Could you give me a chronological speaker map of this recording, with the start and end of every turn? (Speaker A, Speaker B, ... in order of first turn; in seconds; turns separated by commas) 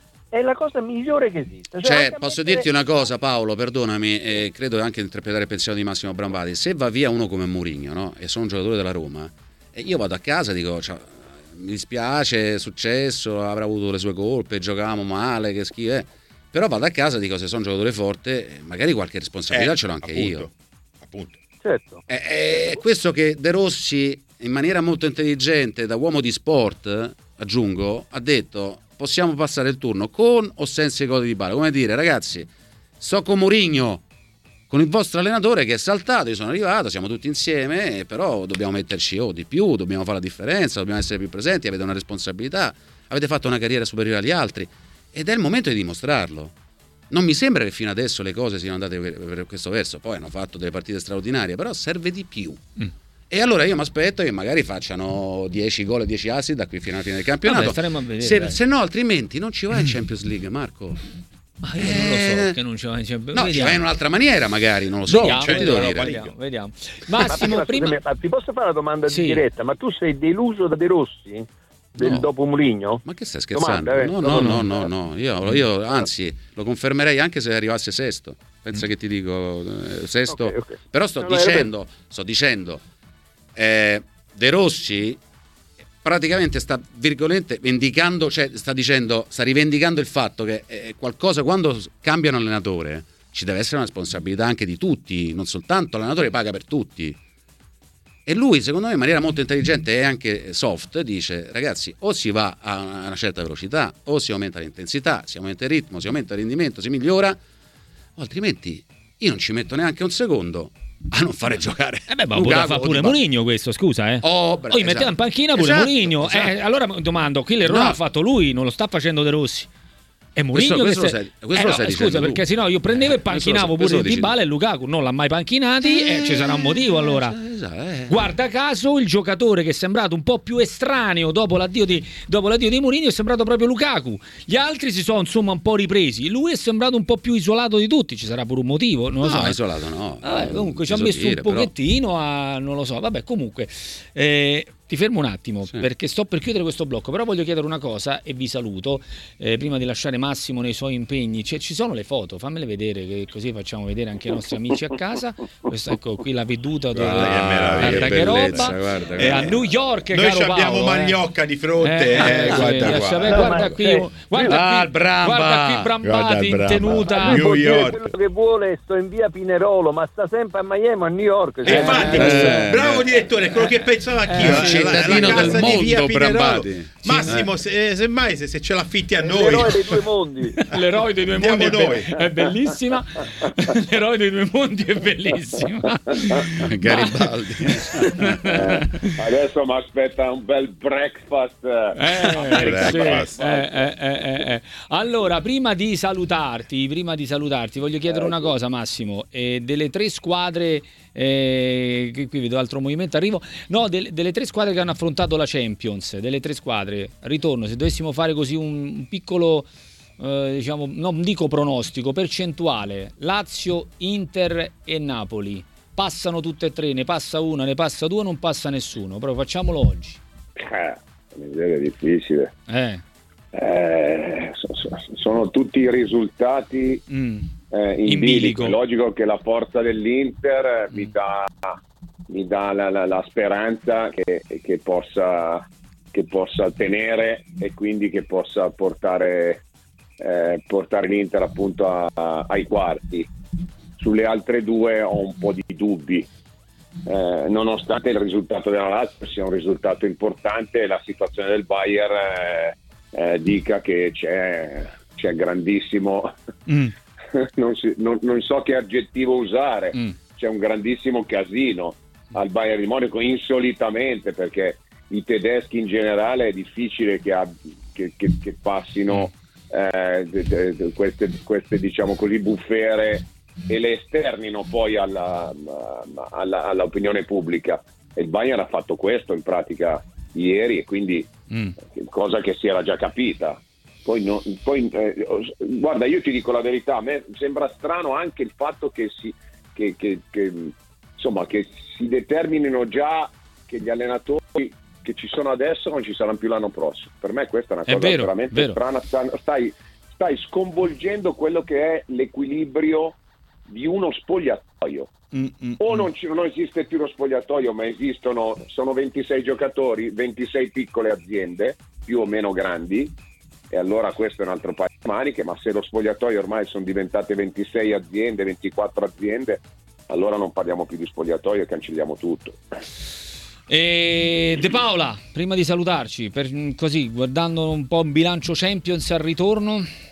Speaker A: 0.3-2.7, Speaker B: 1.8-20.5, Speaker C: 19.5-21.4, Speaker A: 21.6-22.0, Speaker B: 22.1-34.0, Speaker B: 34.7-46.5, Speaker B: 47.1-52.6, Speaker B: 53.3-61.0, Speaker D: 57.4-58.6, Speaker D: 61.6-63.9, Speaker B: 61.8-62.6, Speaker B: 63.3-66.1, Speaker D: 65.1-68.0, Speaker C: 65.2-66.3, Speaker A: 67.2-74.9, Speaker D: 69.1-69.4, Speaker B: 72.0-72.3, Speaker B: 73.0-82.8, Speaker A: 80.3-81.7, Speaker B: 83.5-85.2, Speaker B: 86.0-97.2, Speaker B: 98.2-107.4, Speaker B: 108.2-113.2, Speaker D: 112.1-119.7, Speaker B: 114.2-116.5, Speaker B: 117.6-118.0, Speaker D: 120.3-127.4, Speaker B: 120.5-124.4, Speaker B: 125.9-128.3, Speaker D: 128.1-139.6, Speaker B: 139.2-141.7, Speaker D: 140.2-161.2, Speaker C: 156.9-159.5, Speaker B: 157.0-159.6, Speaker C: 160.1-163.7, Speaker D: 161.8-167.4, Speaker A: 163.3-164.1, Speaker C: 164.4-168.1, Speaker A: 167.1-172.8, Speaker C: 171.6-180.0, Speaker D: 171.7-172.6, Speaker B: 171.9-173.0, Speaker D: 174.2-175.9, Speaker B: 174.4-177.5, Speaker D: 177.1-177.4, Speaker A: 179.2-180.6, Speaker D: 180.5-187.2, Speaker C: 181.3-182.2, Speaker B: 186.5-188.2, Speaker D: 187.9-189.2, Speaker E: 188.4-193.9, Speaker D: 191.9-209.7, Speaker C: 192.3-193.4, Speaker D: 210.2-220.2, Speaker E: 220.6-222.5, Speaker D: 222.7-223.0, Speaker E: 223.5-227.0, Speaker D: 227.1-227.5, Speaker E: 227.7-239.6, Speaker D: 228.1-228.8, Speaker E: 240.2-243.3, Speaker E: 244.0-246.3, Speaker E: 247.1-256.3, Speaker D: 256.7-256.9, Speaker E: 257.3-281.3, Speaker E: 281.8-305.1, Speaker D: 297.9-298.8, Speaker D: 305.3-306.1, Speaker E: 305.8-313.1, Speaker E: 313.7-322.6, Speaker D: 323.7-329.9